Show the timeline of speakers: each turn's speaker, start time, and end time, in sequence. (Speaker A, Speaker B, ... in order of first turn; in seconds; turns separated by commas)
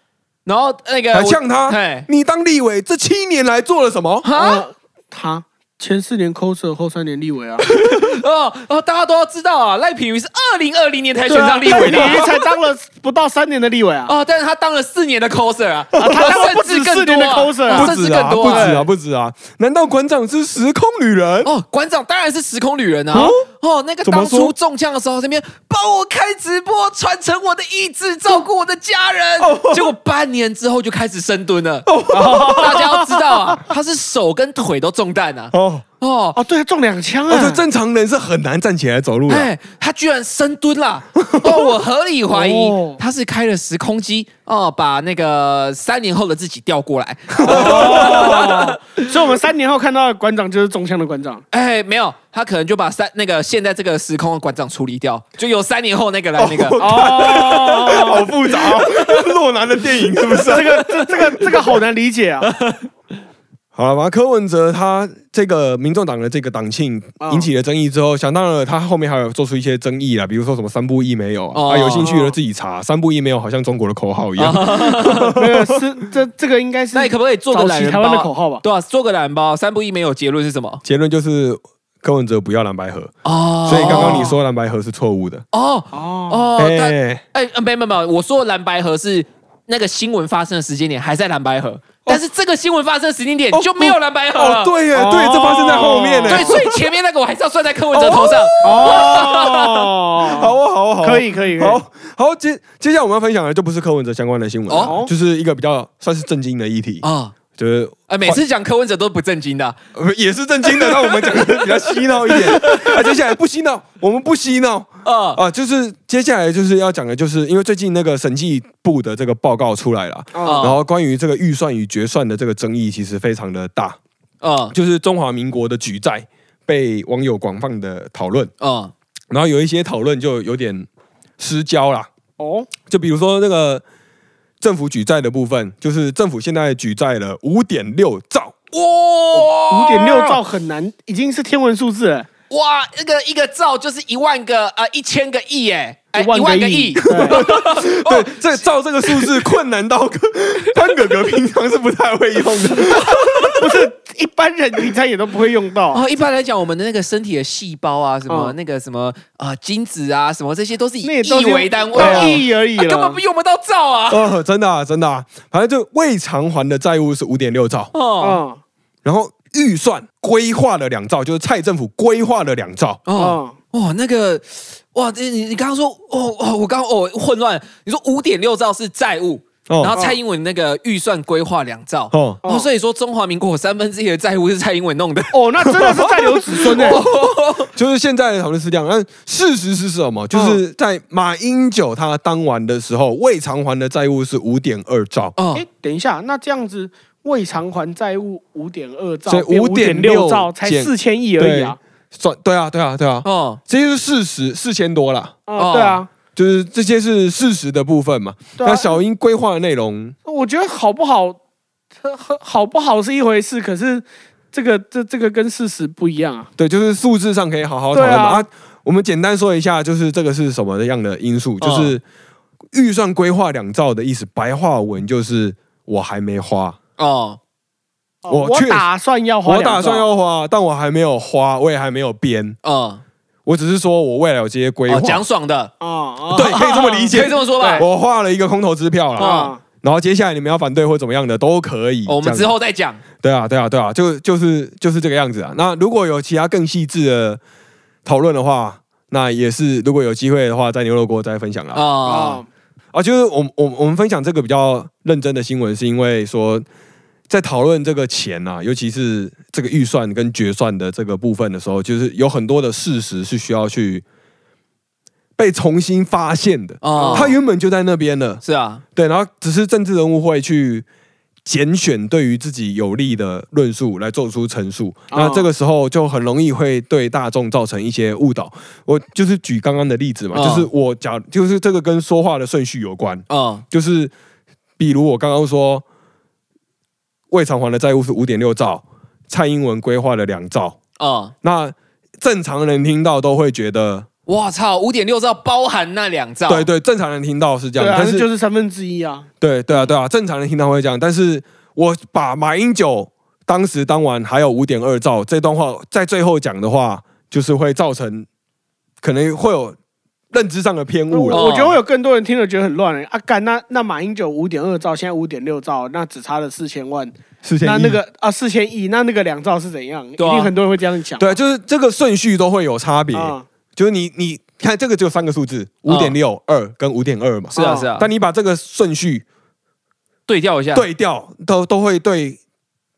Speaker A: 0.5-2.1, Speaker B: 1.1-4.3, Speaker A: 4.2-4.6, Speaker C: 4.3-7.7, Speaker A: 7.6-12.2, Speaker C: 11.3-14.1, Speaker B: 11.7-12.3, Speaker A: 14.1-18.8, Speaker B: 15.9-16.3, Speaker C: 15.9-17.9, Speaker B: 17.7-21.5, Speaker C: 18.4-18.9, Speaker A: 21.4-31.9, Speaker C: 23.1-23.4, Speaker B: 23.1-23.4, Speaker B: 24.0-24.5, Speaker B: 29.4-29.9, Speaker B: 31.9-32.9, Speaker C: 32.1-33.2, Speaker A: 32.5-36.4, Speaker B: 35.5-35.8, Speaker C: 36.3-37.6, Speaker B: 37.3-39.5, Speaker A: 39.3-49.1, Speaker B: 41.2-41.7, Speaker C: 42.3-43.0, Speaker B: 47.4-48.6, Speaker C: 47.4-51.4, Speaker A: 51.5-56.8, Speaker B: 56.4-61.8, Speaker C: 56.8-59.0, Speaker C: 60.4-62.5, Speaker A: 62.4-62.9, Speaker B: 63.7-75.8, Speaker C: 67.2-67.5, Speaker A: 71.5-72.1, Speaker C: 72.0-72.4, Speaker A: 74.4-75.3, Speaker C: 75.3-78.6, Speaker A: 76.9-80.8, Speaker B: 80.8-83.1, Speaker A: 83.2-84.3, Speaker B: 83.7-85.4, Speaker C: 83.7-84.3, Speaker A: 85.5-94.7, Speaker C: 85.9-86.5, Speaker B: 86.6-87.2, Speaker B: 93.5-96.7, Speaker C: 94.9-96.6, Speaker A: 96.3-99.7, Speaker B: 97.9-99.5, Speaker C: 98.6-101.8, Speaker B: 100.2-107.0, Speaker A: 104.7-105.0, Speaker C: 104.8-105.1, Speaker A: 107.0-107.3, Speaker B: 107.6-108.4, Speaker A: 108.1-109.8, Speaker B: 109.9-124.0, Speaker A: 110.8-111.5, Speaker A: 112.3-113.0, Speaker A: 115.0-115.4, Speaker C: 120.3-120.7, Speaker A: 120.4-120.8, Speaker A: 124.4-124.7, Speaker B: 124.7-128.5, Speaker A: 128.6-128.9, Speaker B: 129.3-130.9, Speaker B: 131.4-132.1, Speaker C: 132.4-132.7, Speaker B: 132.8-133.8, Speaker B: 134.6-138.5, Speaker A: 138.7-140.4, Speaker C: 139.5-142.3, Speaker A: 142.5-149.3, Speaker C: 146.1-147.4, Speaker B: 147.1-153.7, Speaker A: 152.7-153.6, Speaker C: 153.6-156.0, Speaker A: 155.9-164.3, Speaker C: 158.3-158.5, Speaker C: 161.0-163.2, Speaker B: 161.9-162.4, Speaker B: 164.1-167.9, Speaker A: 167.9-168.4, Speaker C: 168.2-168.6, Speaker B: 169.0-173.0, Speaker A: 173.1-185.4, Speaker C: 173.1-173.6, Speaker B: 179.7-180.0, Speaker C: 179.9-180.2, Speaker B: 182.1-182.4, Speaker C: 182.4-182.7, Speaker C: 185.3-187.0, Speaker B: 185.6-187.1, Speaker A: 186.7-187.7, Speaker B: 187.7-195.3, Speaker C: 190.3-190.6, Speaker A: 195.3-195.6, Speaker C: 195.5-201.8, Speaker B: 199.3-205.4, Speaker A: 203.2-203.6, Speaker C: 205.5-206.1, Speaker A: 205.6-206.0, Speaker B: 206.3-210.2, Speaker C: 208.6-209.0, Speaker C: 210.2-211.4, Speaker C: 212.0-216.5, Speaker B: 216.6-222.0, Speaker C: 217.9-218.4, Speaker A: 221.6-221.9, Speaker B: 222.7-226.8, Speaker A: 227.0-227.4, Speaker C: 228.2-230.1, Speaker B: 228.3-228.9, Speaker B: 229.4-232.6, Speaker A: 232.6-233.0, Speaker B: 233.4-235.2, Speaker A: 234.9-235.7, Speaker C: 235.8-237.8, Speaker B: 236.3-242.5, Speaker A: 237.1-237.9, Speaker C: 239.2-239.6, Speaker A: 239.2-239.5, Speaker A: 242.1-243.0, Speaker B: 243.2-247.4, Speaker B: 248.0-251.8, Speaker A: 251.7-252.4, Speaker C: 252.0-252.5, Speaker B: 252.9-256.6, Speaker B: 257.3-264.0, Speaker B: 265.4-268.4, Speaker A: 266.8-267.3, Speaker C: 266.9-267.4, Speaker A: 268.4-268.8, Speaker B: 268.9-270.9, Speaker B: 271.4-284.1, Speaker C: 275.1-275.5, Speaker A: 280.3-280.7, Speaker A: 283.3-283.6, Speaker B: 284.8-285.8, Speaker B: 287.3-290.8, Speaker A: 291.0-291.3, Speaker B: 291.4-294.1, Speaker A: 294.3-296.7, Speaker B: 296.5-298.2, Speaker C: 297.8-299.3, Speaker B: 299.4-308.2, Speaker B: 309.0-309.8, Speaker B: 310.3-311.4, Speaker C: 311.1-321.4, Speaker A: 311.3-311.8, Speaker B: 317.4-318.0, Speaker A: 320.2-320.5, Speaker B: 321.2-329.2, Speaker C: 323.1-323.4, Speaker A: 325.9-326.1, Speaker C: 327.5-327.9, Speaker A: 327.5-328.1, Speaker A: 330.3-330.8, Speaker B: 330.7-332.4